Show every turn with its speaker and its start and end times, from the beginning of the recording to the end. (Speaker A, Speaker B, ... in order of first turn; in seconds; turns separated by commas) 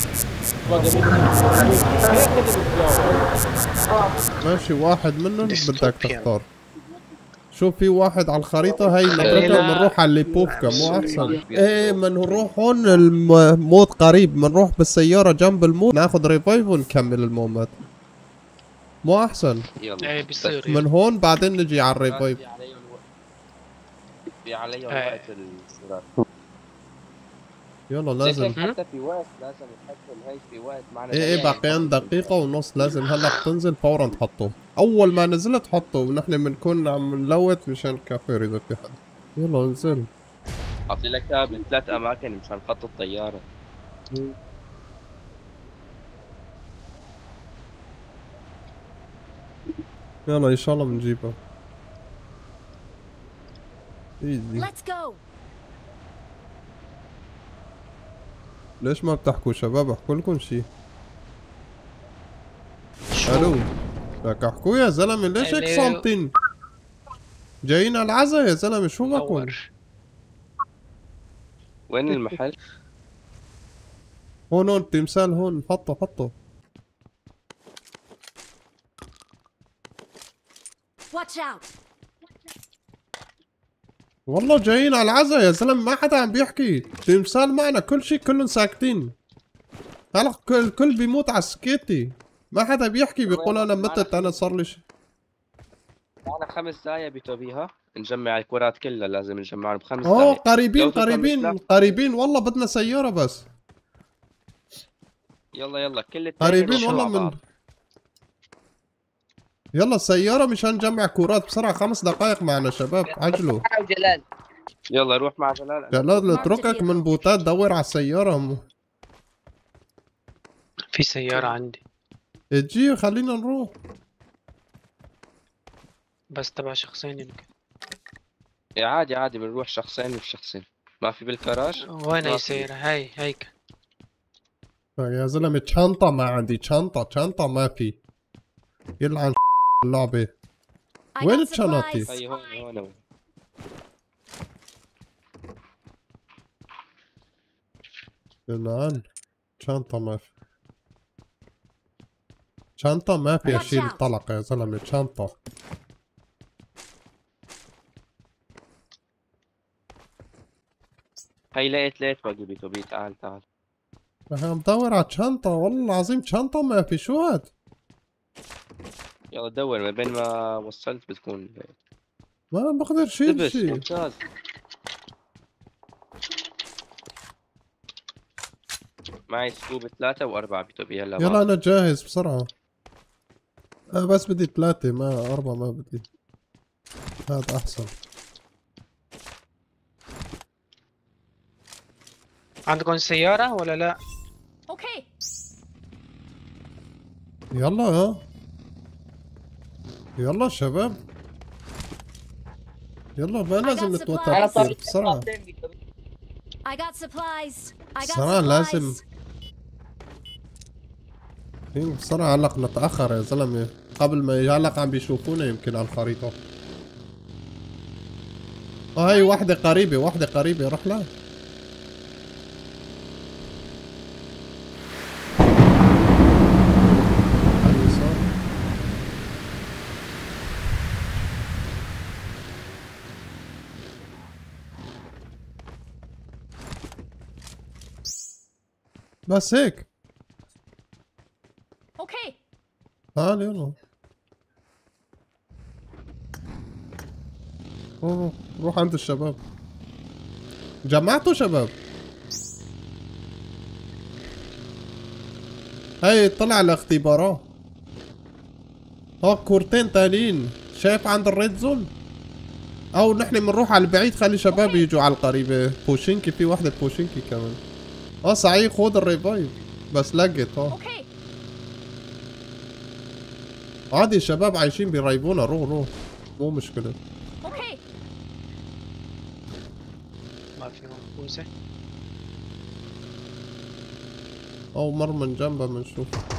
Speaker A: 0.7-3.3, Speaker B: 4.4-6.5, Speaker C: 5.5-6.3, Speaker B: 7.5-17.7, Speaker A: 8.7-9.6, Speaker C: 9.2-9.9, Speaker A: 10.4-12.5, Speaker D: 10.8-11.4, Speaker B: 19.0-19.6, Speaker A: 19.8-20.7, Speaker C: 20.0-20.8, Speaker B: 20.7-22.4, Speaker A: 22.1-23.0, Speaker A: 24.4-26.2, Speaker C: 24.9-25.2, Speaker B: 27.9-28.6, Speaker A: 28.2-32.3, Speaker B: 31.1-40.1, Speaker A: 40.9-43.4, Speaker B: 50.3-51.4, Speaker B: 54.2-54.7, Speaker E: 54.5-55.2, Speaker B: 58.8-60.7, Speaker C: 63.1-63.6, Speaker B: 63.3-63.7, Speaker B: 64.2-66.3, Speaker C: 65.4-66.0, Speaker B: 67.7-69.5, Speaker C: 69.1-69.6, Speaker A: 71.9-72.6, Speaker B: 74.5-76.3, Speaker E: 81.1-81.7, Speaker B: 84.3-89.1, Speaker B: 90.1-94.8, Speaker A: 93.2-94.4, Speaker A: 96.3-102.0, Speaker B: 100.0-103.5, Speaker A: 105.5-107.3, Speaker B: 106.4-107.4, Speaker C: 106.7-107.0, Speaker B: 109.8-113.6, Speaker D: 113.1-114.2, Speaker A: 114.9-116.3, Speaker B: 115.9-118.6, Speaker E: 116.2-117.2, Speaker C: 120.9-121.8, Speaker B: 122.5-123.7, Speaker C: 126.3-127.5, Speaker A: 128.8-132.7, Speaker C: 131.9-133.5, Speaker B: 135.0-138.0, Speaker B: 139.0-140.3, Speaker E: 141.2-142.5, Speaker B: 141.2-142.1, Speaker A: 142.1-143.0, Speaker B: 148.5-149.0, Speaker B: 149.6-150.2, Speaker B: 152.8-155.3, Speaker E: 153.4-154.0, Speaker A: 161.5-163.4, Speaker B: 164.3-167.5, Speaker A: 169.3-171.7, Speaker B: 172.5-173.8, Speaker A: 173.2-174.2, Speaker A: 179.3-181.4, Speaker B: 181.2-182.5, Speaker B: 183.9-186.0, Speaker B: 187.3-187.9, Speaker C: 192.7-193.9, Speaker E: 194.7-195.1, Speaker B: 197.5-198.2, Speaker B: 200.2-201.0, Speaker B: 203.2-205.2, Speaker E: 203.6-204.7, Speaker D: 204.3-205.7, Speaker E: 206.7-209.0, Speaker B: 208.0-209.0, Speaker B: 211.7-216.3, Speaker B: 219.0-221.1, Speaker E: 219.1-219.4, Speaker B: 227.6-228.2, Speaker B: 239.3-239.8, Speaker E: 242.0-242.4, Speaker B: 243.2-243.8, Speaker B: 248.0-249.4, Speaker B: 250.9-251.7, Speaker B: 256.0-257.4, Speaker B: 259.2-261.9, Speaker B: 263.0-267.6, Speaker E: 264.5-264.8, Speaker B: 268.2-270.8, Speaker E: 270.7-271.1, Speaker B: 273.9-277.0, Speaker E: 277.4-277.8, Speaker C: 280.6-281.5, Speaker B: 284.7-286.1